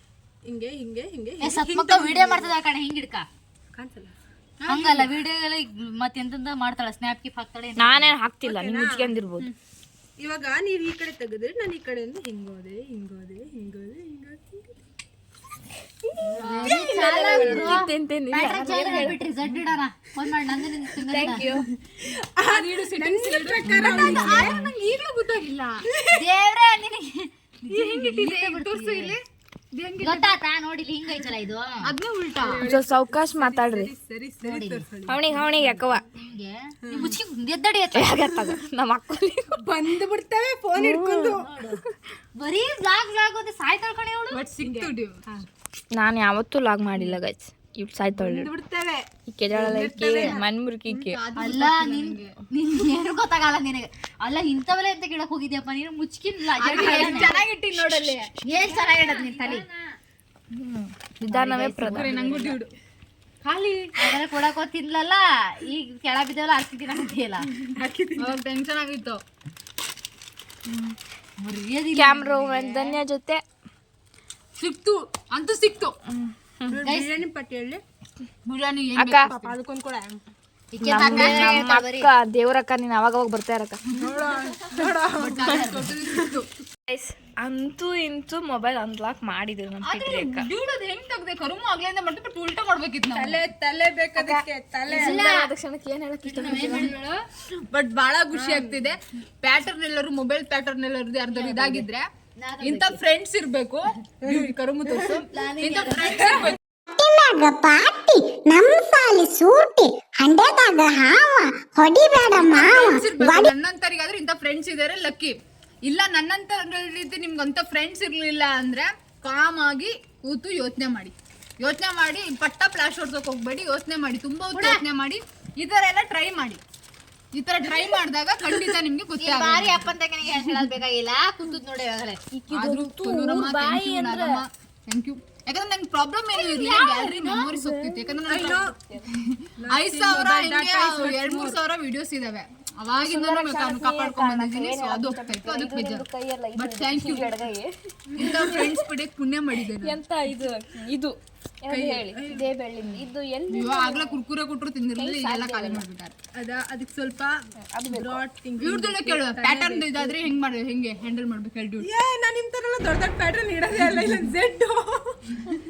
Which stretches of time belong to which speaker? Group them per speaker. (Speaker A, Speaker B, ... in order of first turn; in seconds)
Speaker A: 0.5-2.5, 3.7-4.1, 4.7-5.1, 8.4-9.5, 10.2-14.8, 16.4-17.7, 21.9-24.5, 25.9-26.2, 27.7-28.0, 32.4-36.0, 36.9-37.1, 39.6-41.5, 44.6-45.5, 48.2-50.4, 56.6-57.4, 67.6-68.4, 76.7-77.8, 79.3-80.2, 84.0-86.4, 93.1-95.2, 98.3-98.8, 104.2-105.2, 106.0-106.5, 138.3-138.7, 139.6-141.6, 148.2-148.5, 151.7-152.5, 156.3-160.2, 161.8-165.2
Speaker B: 1.4-3.3, 4.7-8.2, 16.2-21.5, 26.1-29.1, 30.0-31.9, 34.4-34.8, 36.1-38.2, 41.3-41.8, 42.4-44.4, 51.4-57.4, 58.4-59.7, 61.3-62.6, 64.0-67.5, 71.4-73.0, 76.8-77.2, 80.7-82.1, 85.2-85.9, 95.0-95.4, 96.2-97.2, 101.3-101.8, 102.4-103.0, 105.3-106.5, 124.5-124.8, 129.2-132.2, 136.4-137.4
Speaker C: 7.8-9.5, 16.7-19.2, 21.0-21.6, 23.6-24.7, 32.6-33.9, 35.1-36.0, 37.9-39.5, 40.7-41.4, 45.9-48.5, 49.3-51.2, 60.5-62.1, 72.0-73.4, 76.1-76.8, 79.0-79.3, 80.8-83.8, 86.9-90.5, 94.1-96.9, 132.3-134.4, 136.8-139.1, 143.0-148.8, 149.8-151.1, 151.7-154.2, 154.9-155.8, 157.6-158.2
Speaker D: 16.4-17.4, 22.5-25.8, 27.7-29.2, 29.7-30.4, 31.8-32.6, 44.3-45.2, 49.7-50.4, 50.9-52.3, 56.6-58.3, 59.2-59.5, 61.8-62.7, 63.4-63.9, 68.2-69.2, 74.6-75.9, 78.5-79.6, 80.9-81.6, 85.2-86.5, 89.8-93.4, 95.0-95.3, 96.5-96.8, 97.7-102.1, 102.6-106.6, 112.3-126.6, 127.3-129.9, 132.5-146.0, 146.6-147.4, 148.2-150.0, 153.5-156.2, 158.6-161.9
Speaker E: 106.9-113.5